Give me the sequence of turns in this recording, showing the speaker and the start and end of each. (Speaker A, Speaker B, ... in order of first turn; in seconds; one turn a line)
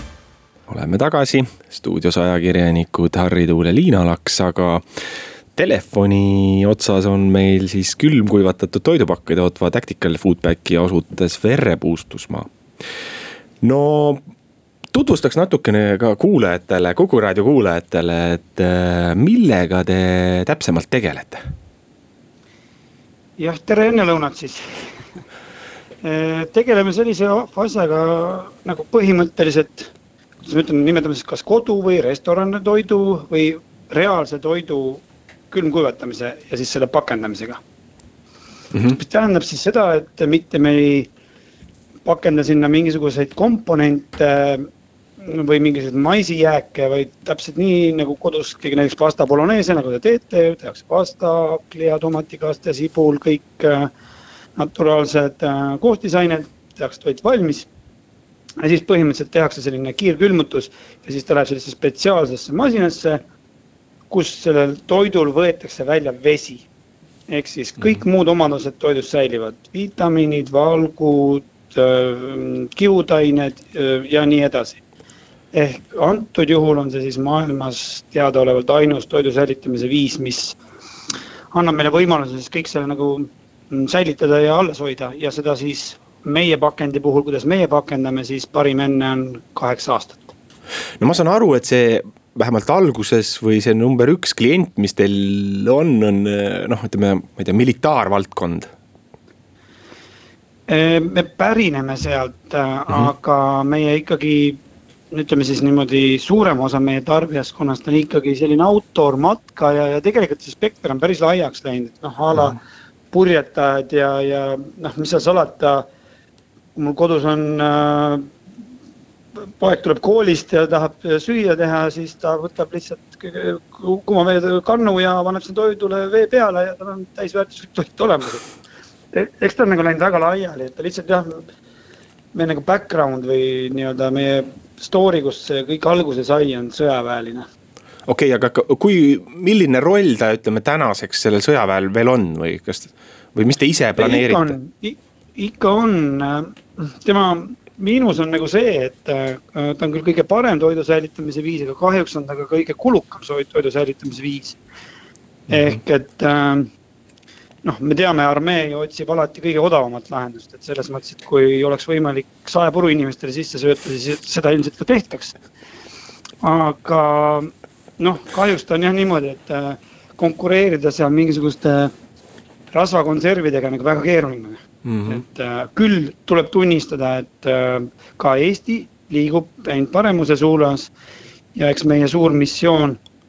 Speaker A: 0.7-4.8
Speaker A: 5.5-12.5
Speaker A: 13.6-14.2
Speaker A: 14.9-21.4
Speaker B: 23.4-25.0
Speaker B: 26.0-29.9
Speaker B: 30.4-37.6
Speaker A: 38.7-39.0
Speaker B: 38.9-41.1
Speaker B: 42.0-44.7
Speaker B: 45.2-53.9
Speaker B: 54.6-57.7
Speaker B: 58.6-63.2
Speaker B: 64.1-66.7
Speaker B: 67.3-74.8
Speaker B: 75.5-80.6
Speaker B: 81.5-90.3
Speaker A: 91.0-98.7
Speaker B: 100.7-104.6
Speaker B: 105.1-112.6
Speaker B: 113.1-115.9
Speaker B: 116.8-118.3
Speaker B: 119.4-128.5
Speaker B: 129.1-131.4
Speaker B: 132.3-137.5
Speaker A: 138.1-144.5
Speaker B: 144.0-154.6
Speaker B: 155.5-156.7
Speaker B: 157.6-165.4
Speaker B: 166.4-171.9
Speaker B: 172.7-180.9
Speaker A: 174.8-175.2
Speaker B: 181.5-183.0